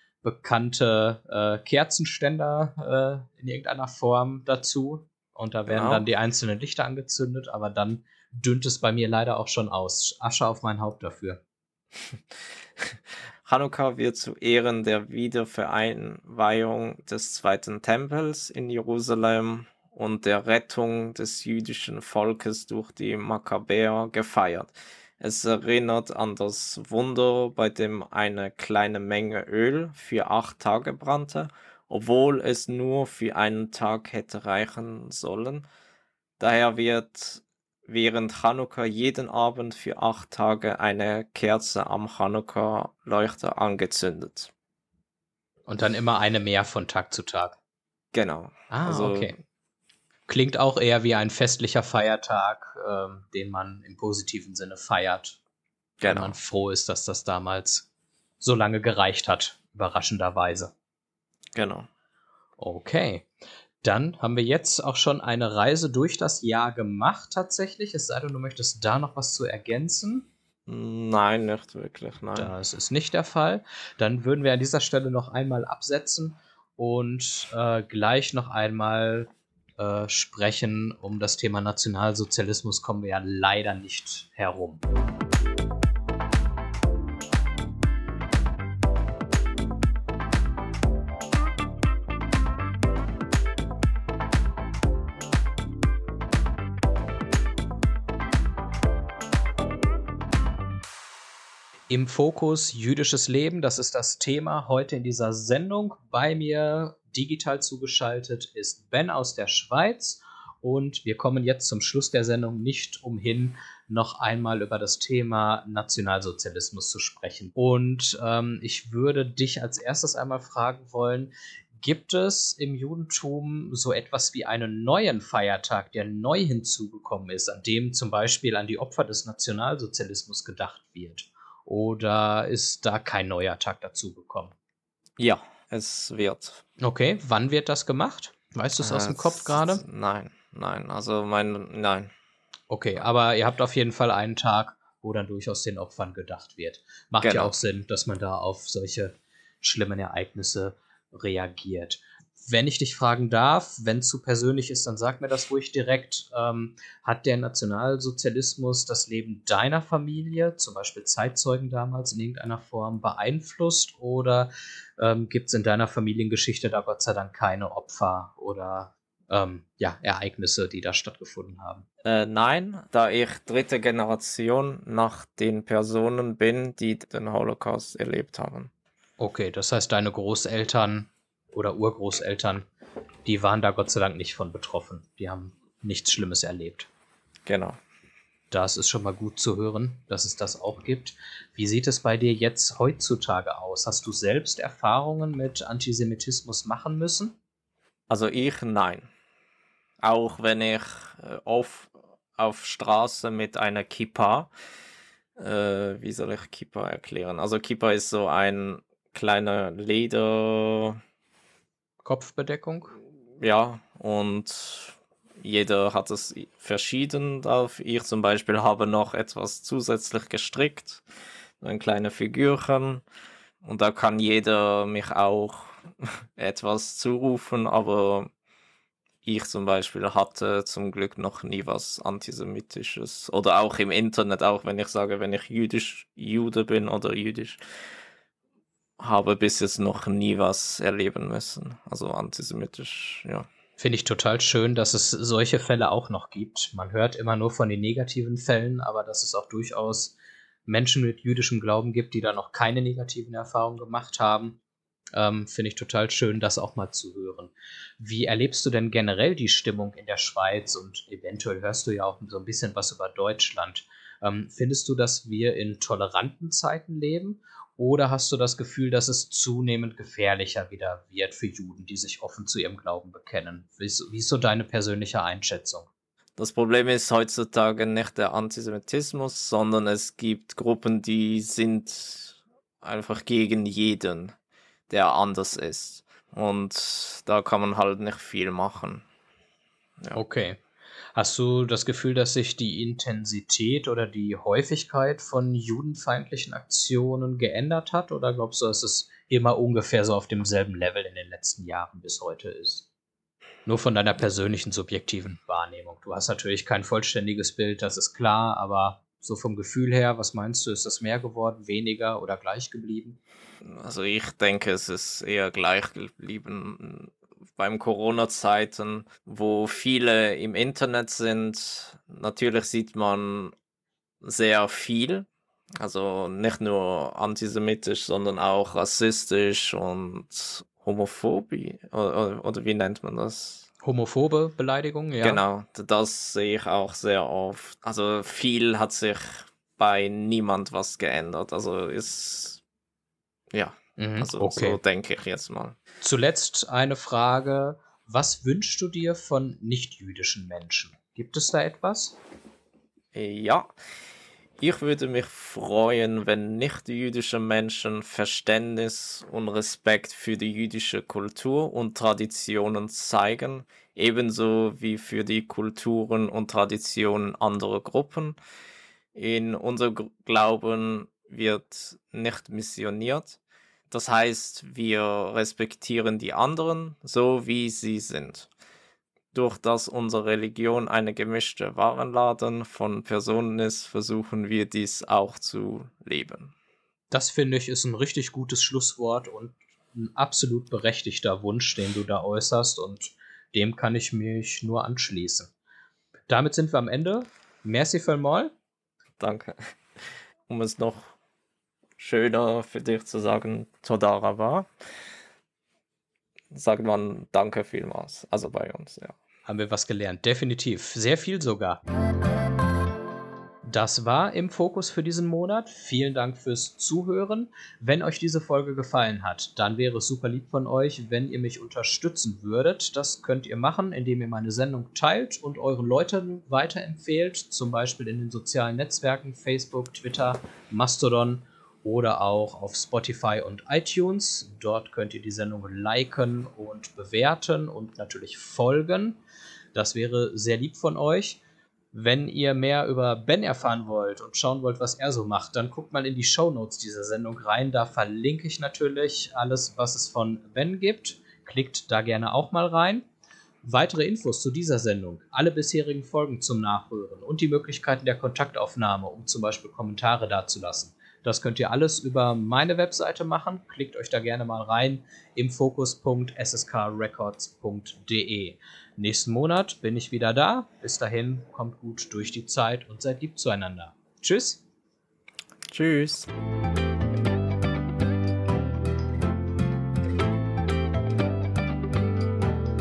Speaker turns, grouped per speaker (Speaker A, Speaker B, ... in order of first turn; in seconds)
Speaker A: 0.2-11.4, 45.7-47.6, 48.7-49.4, 50.3-55.4, 56.0-57.9, 58.4-60.7, 62.6-63.3, 63.8-70.3, 72.3-84.8, 101.9-134.5, 136.8-139.8, 142.7-171.8, 179.2-182.7, 183.2-186.9, 188.5-197.4, 212.0-213.0, 243.8-254.6, 255.2-275.9, 290.1-290.6, 291.1-302.9, 303.7-313.2, 333.8-335.4, 344.0-344.8, 346.0-352.2, 387.1-395.5, 396.3-398.5, 409.5-411.8, 413.6-439.2, 439.7-441.4, 441.9-453.1, 453.6-474.6
Speaker B: 5.7-6.0, 12.8-35.7, 36.4-44.5, 48.1-49.4, 56.0-56.4, 61.5-61.9, 70.7-72.5, 135.2-136.6, 138.8-142.1, 147.2-147.5, 172.0-178.7, 187.5-187.8, 198.1-199.1, 200.0-204.5, 205.4-211.0, 213.4-221.1, 221.6-223.0, 223.6-228.3, 229.2-237.6, 239.0-243.5, 276.4-284.3, 284.9-289.1, 313.6-323.5, 324.2-325.3, 325.8-333.7, 335.2-342.6, 343.5-345.8, 353.1-353.7, 354.6-368.4, 369.1-373.4, 373.9-378.5, 379.3-386.5, 399.2-401.1, 402.0-404.7, 406.5-409.1, 475.7-476.3